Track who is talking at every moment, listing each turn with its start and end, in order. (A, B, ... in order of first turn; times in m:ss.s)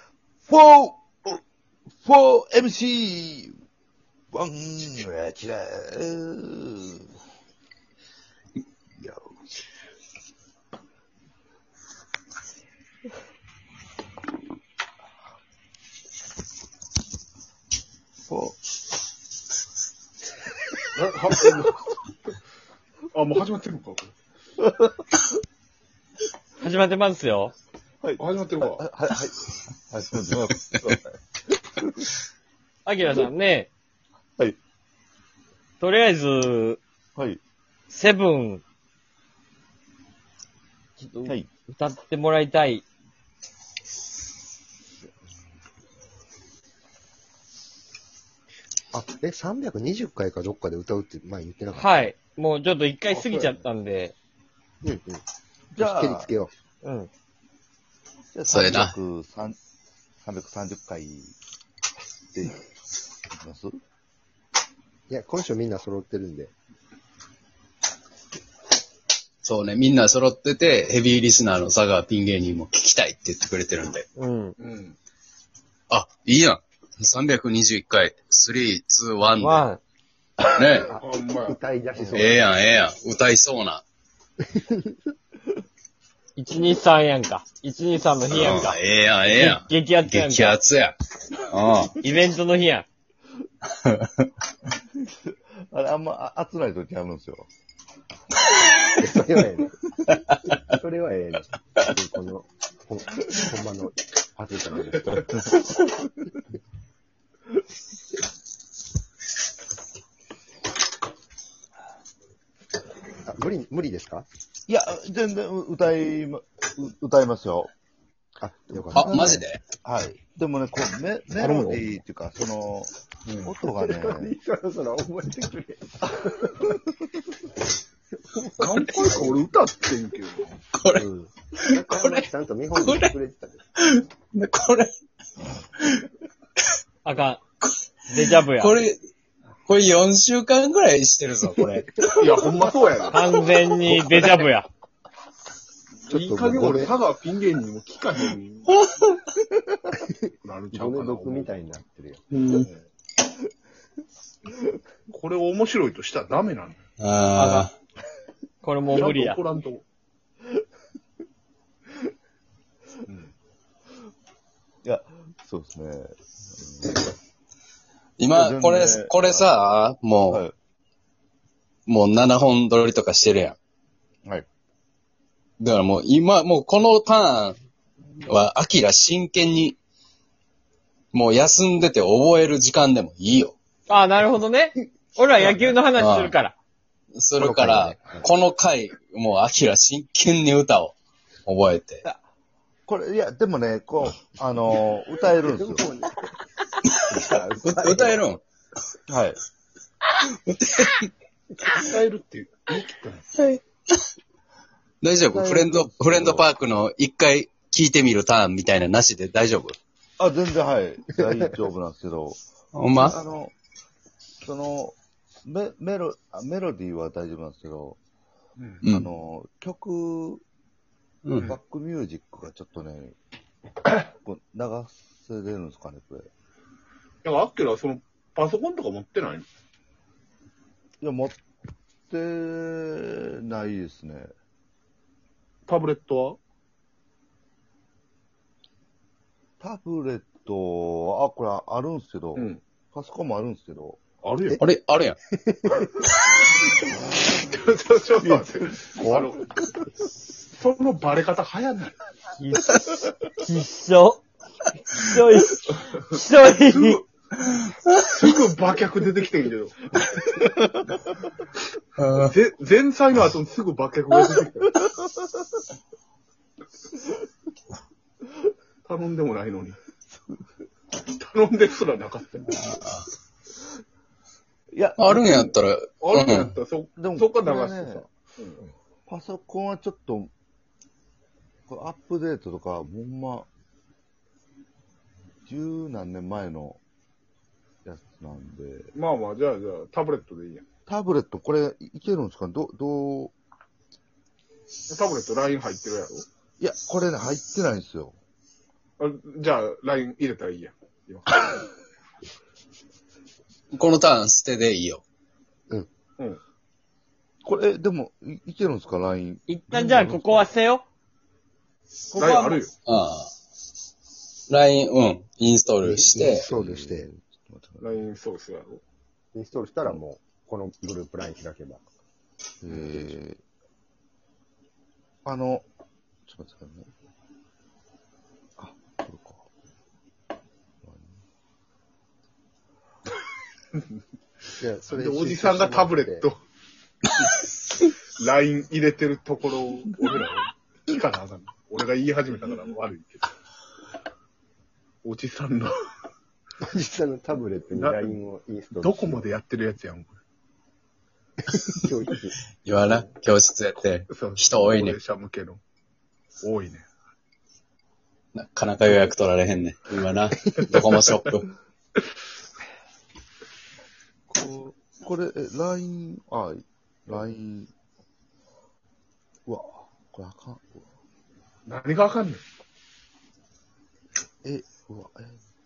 0:00.5-0:03.6 A
0:04.3-0:07.1 A
0:09.0-0:09.4 A
0:18.3-0:18.6 A
0:20.9-0:22.0 B
0:23.1-0:24.2 B
0:24.6-0:25.2 A
0:26.6-0:27.5 C
0:28.0-0:32.1 A
0:28.2-0:28.8 B
0:32.8-0:33.7 C
0:35.8-0:36.8 C
0:37.9-0:38.6 C
0:41.0-0:42.8 C
0:48.9-0:52.1 D
0:51.8-0:54.1 C
0:54.8-0:55.2 D
0:55.7-0:56.3 A
0:55.8-0:56.5 D
0:56.8-0:57.1 C
0:58.3-0:59.6 A
0:58.5-0:58.9 E
1:00.2-1:01.4 A
1:02.3-1:02.6 A
1:03.3-1:03.8 A
1:05.1-1:06.5 D
1:09.4-1:14.1 E
1:14.2-1:14.6 C
1:14.6-1:15.0 B
1:15.9-1:19.6 E
1:19.4-1:19.8 C
1:20.5-1:20.9 E
1:20.8-1:22.5 D
1:20.8-1:21.6 B
1:22.1-1:23.8 E
1:24.5-1:25.0 D
1:26.4-1:30.6 C
1:28.3-1:32.0 E
1:32.0-1:32.9 C
1:33.8-1:34.3 E
1:35.0-1:37.5 A
1:39.0-1:45.3 D
1:53.2-1:54.3 D
1:54.7-1:57.7 A
1:58.4-1:59.4 D
1:58.7-2:04.4 A
1:58.9-1:59.6 E
2:01.4-2:01.8 D
2:03.7-2:06.8 D
2:08.3-2:09.5 D
2:08.6-2:10.5 B
2:10.7-2:11.1 E
2:10.9-2:13.6 D
2:11.6-2:12.2 E
2:12.7-2:13.1 E
2:13.8-2:14.9 E
2:17.0-2:17.4 C
2:18.1-2:18.8 C
2:18.5-2:19.0 E
2:19.7-2:22.4 E
2:22.1-2:23.2 B
2:22.1-2:22.7 D
2:23.1-2:24.7 C
2:26.1-2:28.8 B
2:26.1-2:27.0 D
2:28.7-2:29.1 E
2:29.9-2:32.2 D
2:30.4-2:31.6 B
2:32.3-2:32.7 E
2:32.5-2:32.8 B
2:35.1-2:36.8 B
2:37.0-2:37.7 E
2:37.4-2:37.7 C
2:38.6-2:39.4 C
2:38.9-2:39.8 B
2:44.8-2:47.1 A
2:48.2-2:50.4 E
2:48.3-2:49.6 A
2:50.3-2:50.5 A
2:51.9-2:53.6 E
2:55.6-2:57.6 E
2:58.2-2:59.8 E
3:01.1-3:03.6 E
3:03.9-3:06.6 C
3:06.0-3:06.4 E
3:07.1-3:11.0 E
3:07.4-3:08.2 D
3:11.5-3:12.0 E
3:12.9-3:15.9 A
3:15.3-3:16.3 D
3:17.1-3:18.2 D
3:17.6-3:18.4 E
3:19.1-3:19.4 A
3:20.5-3:21.1 E
3:21.8-3:23.3 B
3:23.4-3:23.6 E
3:25.0-3:29.8 E
3:25.3-3:26.5 A
3:30.2-3:32.4 A
3:32.7-3:33.2 E
3:32.9-3:33.5 A
3:34.4-3:38.0 A
3:38.6-3:38.8 B
3:38.8-3:40.4 A
3:41.2-3:41.5 E
3:41.4-3:43.2 A
3:44.0-3:46.3 A
3:47.2-3:49.5 B
3:51.0-3:51.4 A
3:52.1-3:54.3 A
3:55.7-3:56.4 B
3:59.6-4:04.0 A
4:04.2-4:04.6 B
4:04.6-4:05.2 E
4:05.3-4:05.9 D
4:07.2-4:09.5 B
4:08.2-4:09.3 A
4:10.5-4:12.0 B
4:12.4-4:12.8 C
4:13.4-4:14.2 C
4:14.9-4:17.0 C
4:16.4-4:17.0 B
4:18.0-4:19.8 B
4:20.4-4:21.0 A
4:22.0-4:22.4 E
4:22.2-4:24.8 B
4:28.8-4:29.8 B
4:31.0-4:32.7 B
4:32.6-4:33.0 E
4:34.7-4:35.6 A
4:35.0-4:36.5 E
4:36.0-4:38.6 B
4:37.0-4:38.0 A
4:39.1-4:40.3 A
4:41.7-4:43.5 A
4:45.5-4:46.8 A
4:47.8-4:48.9 A
4:49.0-4:50.6 B
4:50.9-4:53.3 A
4:54.9-4:56.3 B
4:56.6-4:58.2 A
4:59.0-5:01.7 B
5:03.7-5:05.0 E
5:07.4-5:10.5 A
5:09.5-5:10.8 C
5:12.1-5:12.7 B
5:12.2-5:12.5 C
5:12.9-5:13.3 E
5:14.5-5:16.5 E
5:15.8-5:17.1 D
5:16.4-5:18.0 A
5:17.8-5:18.8 B
5:19.3-5:21.8 D
5:22.6-5:23.4 A
5:25.2-5:25.7 A
5:26.3-5:26.9 A
5:28.6-5:29.5 A
5:30.8-5:31.2 A
5:34.6-5:36.3 D
5:34.9-5:36.4 B
5:38.2-5:43.3 B
5:45.0-5:45.7 B
5:46.6-5:49.4 D
5:47.7-5:48.2 B
5:48.8-5:50.2 B
5:51.4-5:53.1 D
5:52.6-5:55.0 E
5:54.1-5:55.6 B
5:56.4-5:56.9 B
5:58.4-6:01.5 E
6:04.3-6:07.7 A
6:09.5-6:10.8 A
6:11.7-6:12.4 B
6:14.4-6:15.4 A